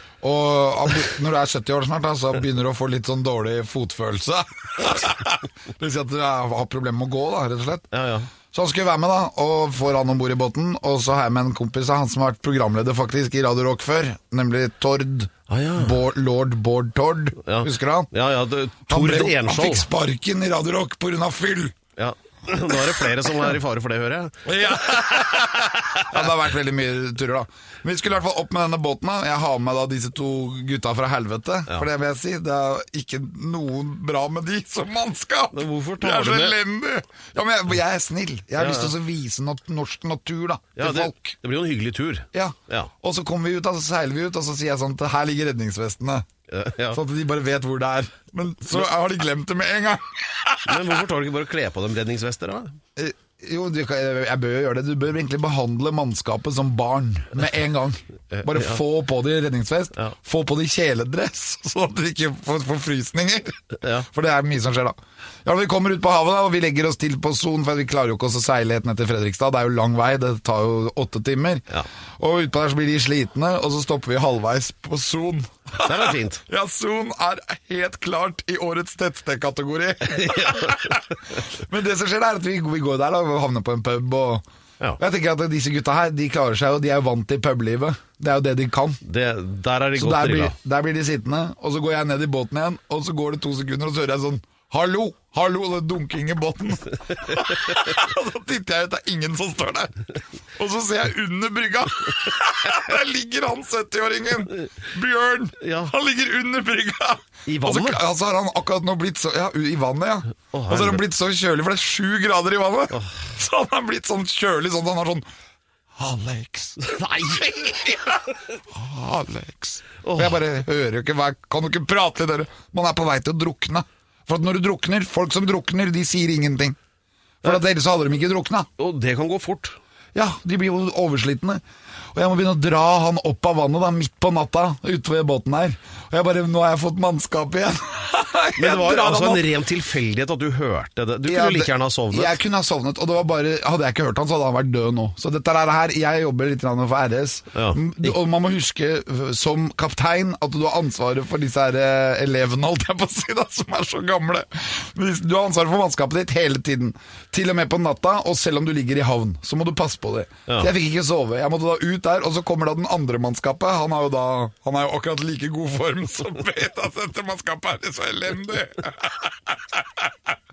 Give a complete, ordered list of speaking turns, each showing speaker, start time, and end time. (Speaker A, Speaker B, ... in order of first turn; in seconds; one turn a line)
Speaker A: 0.2-7.9
Speaker B: 7.9-8.3
Speaker A: 8.5-18.1
Speaker B: 15.5-16.0
Speaker B: 17.4-19.9
Speaker A: 18.9-21.8
Speaker B: 21.9-24.4
Speaker A: 24.4-41.3
Speaker B: 25.4-26.2
Speaker B: 35.5-36.6
Speaker B: 38.6-38.9
Speaker B: 40.7-42.9
Speaker A: 42.3-46.2
Speaker B: 46.5-47.0
Speaker A: 46.9-51.0
Speaker B: 50.6-52.8
Speaker A: 53.0-71.7
Speaker B: 58.3-58.8
Speaker B: 63.8-64.1
Speaker A: 72.2-84.4
Speaker B: 75.8-76.4
Speaker B: 80.0-81.0
Speaker A: 85.0-89.0
Speaker B: 89.0-90.5
Speaker A: 90.0-115.2
Speaker B: 105.6-105.9
Speaker B: 107.4-108.0
Speaker B: 110.5-111.0
Speaker B: 112.9-113.2
Speaker A: 116.0-118.2
Speaker B: 116.8-118.2
Speaker A: 118.7-126.8
Speaker B: 120.0-120.4
Speaker A: 127.4-128.7
Speaker B: 128.8-129.8
Speaker A: 130.1-131.6
Speaker A: 132.1-139.5
Speaker B: 138.6-142.4
Speaker A: 141.2-170.3
Speaker B: 147.5-148.1